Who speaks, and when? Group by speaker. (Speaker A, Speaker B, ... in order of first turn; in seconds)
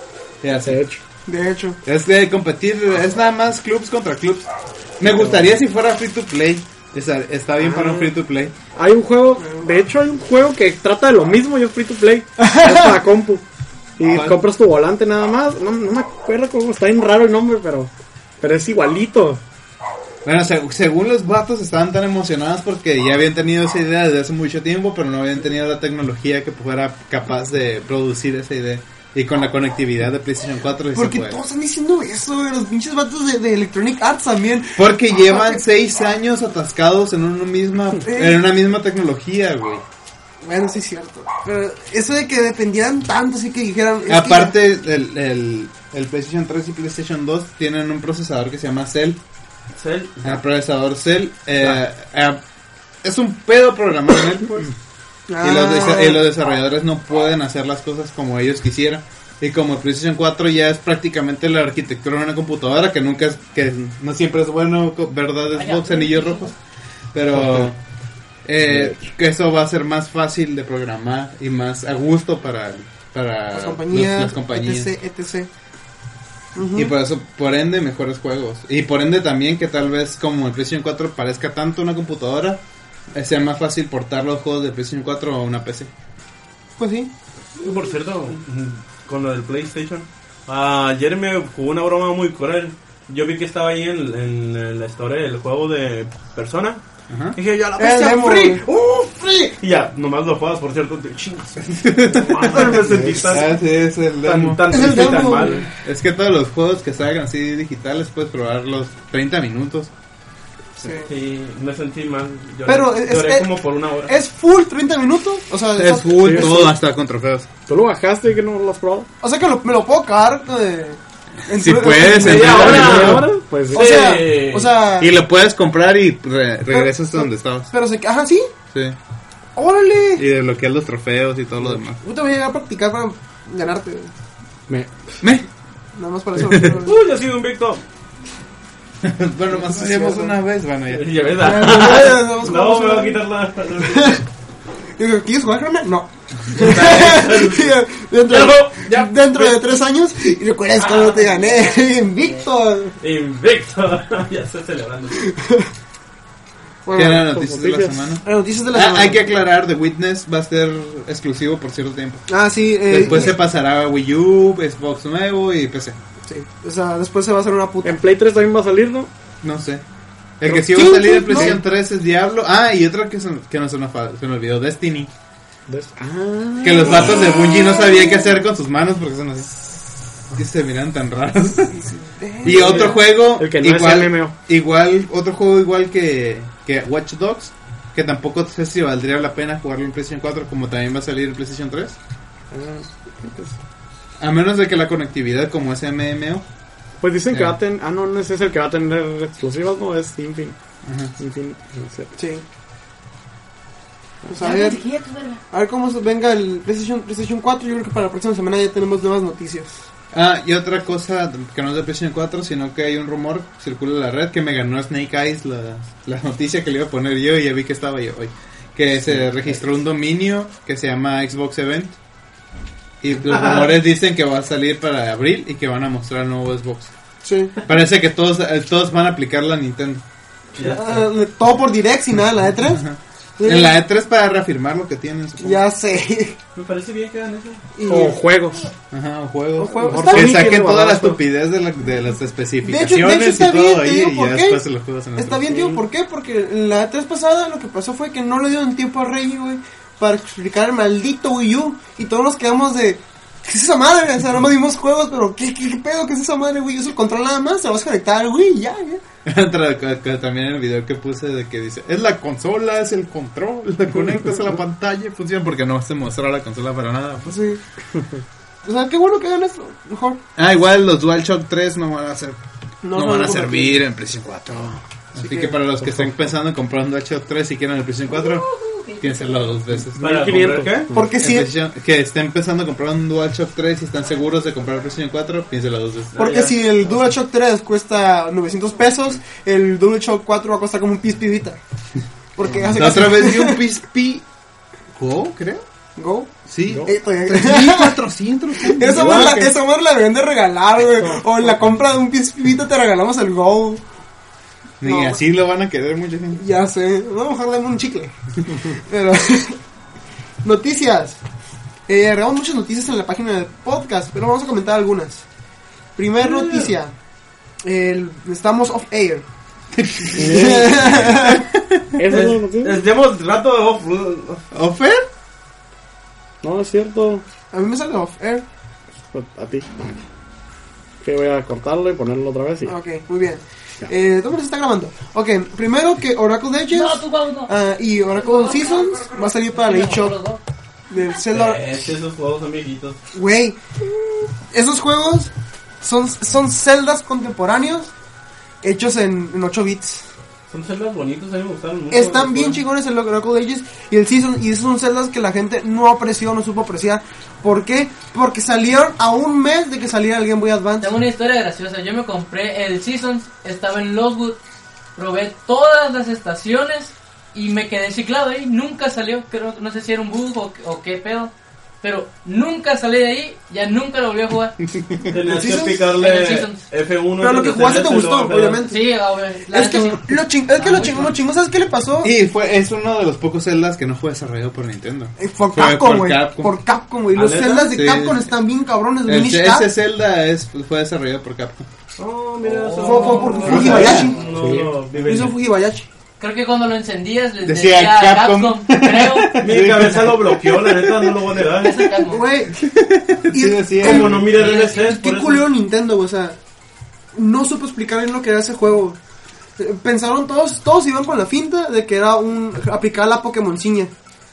Speaker A: 0.4-0.8, 1.9-8.6, 14.0-14.4, 20.2-31.4, 34.8-39.8, 44.1-49.2, 50.2-52.4, 53.0-54.8, 55.4-66.5, 67.1-67.8, 68.5-74.9, 76.7-82.6, 83.1-85.9, 97.1-97.4, 101.7-109.9, 115.8-117.5, 121.5-123.3, 125.0-127.7, 130.2-132.0, 135.2-135.5, 136.4-136.8, 139.0-141.3, 156.9-162.3, 162.9-166.0, 169.4-169.8, 170.4-175.1, 176.6-181.8, 182.4-192.0, 194.2-196.4, 197.3-197.6, 200.8-201.1, 210.1-222.0, 223.0-226.9, 227.7-230.0, 232.7-235.6, 238.9-245.7, 259.3-267.4, 270.4-272.4, 272.9-278.5, 279.0-280.1, 281.2-286.3, 292.8-294.2, 294.9-295.6, 296.5-299.5, 304.8-306.4, 319.8-321.9, 324.5-325.1, 374.7-375.1, 382.0-386.5, 387.7-388.2, 389.1-391.7, 393.4-394.1, 397.4-401.3, 402.5-404.3
Speaker B: 0.7-1.0, 5.0-5.5, 8.8-13.4, 14.0-19.4, 67.3-67.7, 68.6-69.0, 102.5-103.4, 116.2-116.6, 117.7-119.1, 122.5-123.9, 134.7-135.2, 157.3-158.1, 167.8-169.1, 170.5-171.6, 175.7-177.3, 183.3-184.3, 192.5-193.6, 197.0-200.6, 201.2-202.1, 237.9-238.7, 239.8-241.2, 280.0-281.1, 298.9-299.6, 301.0-301.5, 320.2-320.8, 322.0-322.8, 326.4-327.2, 329.1-329.9, 331.0-332.8, 394.2-394.8
Speaker C: 1.3-1.8, 9.4-9.7, 12.4-13.0, 30.9-35.6, 38.1-38.4, 40.4-44.5, 55.3-56.2, 73.5-75.5, 76.5-76.9, 86.8-87.1, 97.8-98.6, 104.7-105.7, 110.8-111.1, 112.7-116.7, 119.2-123.2, 123.7-125.1, 126.7-128.5, 129.6-130.2, 132.0-134.1, 135.9-137.0, 139.5-140.3, 141.4-143.2, 143.8-144.2, 145.0-152.9, 155.2-155.7, 156.8-157.3, 158.2-159.3, 162.3-163.3, 166.3-168.0, 170.6-171.6, 177.3-178.0, 181.7-183.1, 202.2-202.4, 204.3-204.8, 205.5-209.9, 227.2-227.5, 230.6-233.8, 235.4-236.4, 237.8-238.2, 239.6-240.6, 242.6-244.6, 245.2-259.0, 267.3-267.6, 268.6-270.2, 272.8-273.8, 275.2-275.6, 280.9-281.5, 286.2-291.6, 292.4-293.6, 296.0-296.3, 296.9-298.0, 298.6-303.8, 304.8-305.2, 306.4-308.1, 308.7-309.6, 310.4-311.2, 311.9-315.2, 316.0-316.9, 317.6-319.2, 320.2-321.5, 327.5-328.4, 332.6-340.2, 340.9-341.6, 343.1-343.6, 344.5-347.9, 348.6-350.1, 351.9-360.9, 375.3-375.9, 377.2-378.9, 379.5-382.1, 385.2-389.7, 392.6-395.9, 402.1-402.6, 403.3-406.4, 407.1-409.0, 409.6-413.9
Speaker D: 49.8-50.4, 87.6-96.8, 97.3-103.5, 104.2-105.7, 111.0-114.2, 122.2-124.8, 136.8-137.8, 140.9-144.2, 146.5-149.6, 150.9-151.2, 153.0-155.3, 182.5-182.9, 223.3-223.7, 230.6-231.1, 236.6-237.6, 280.0-280.9, 286.1-287.0, 316.2-316.8, 322.1-324.4, 341.3-343.0, 350.5-352.6, 375.1-378.6, 387.1-387.8, 392.0-395.4, 399.4-402.0, 403.8-405.5
Speaker E: 65.5-66.5, 150.9-151.7, 204.4-205.4, 278.1-279.5, 336.7-337.5, 338.1-340.4, 360.8-364.4, 365.0-374.6, 375.9-376.6, 378.7-381.2, 392.7-394.0, 396.2-399.5, 401.6-402.2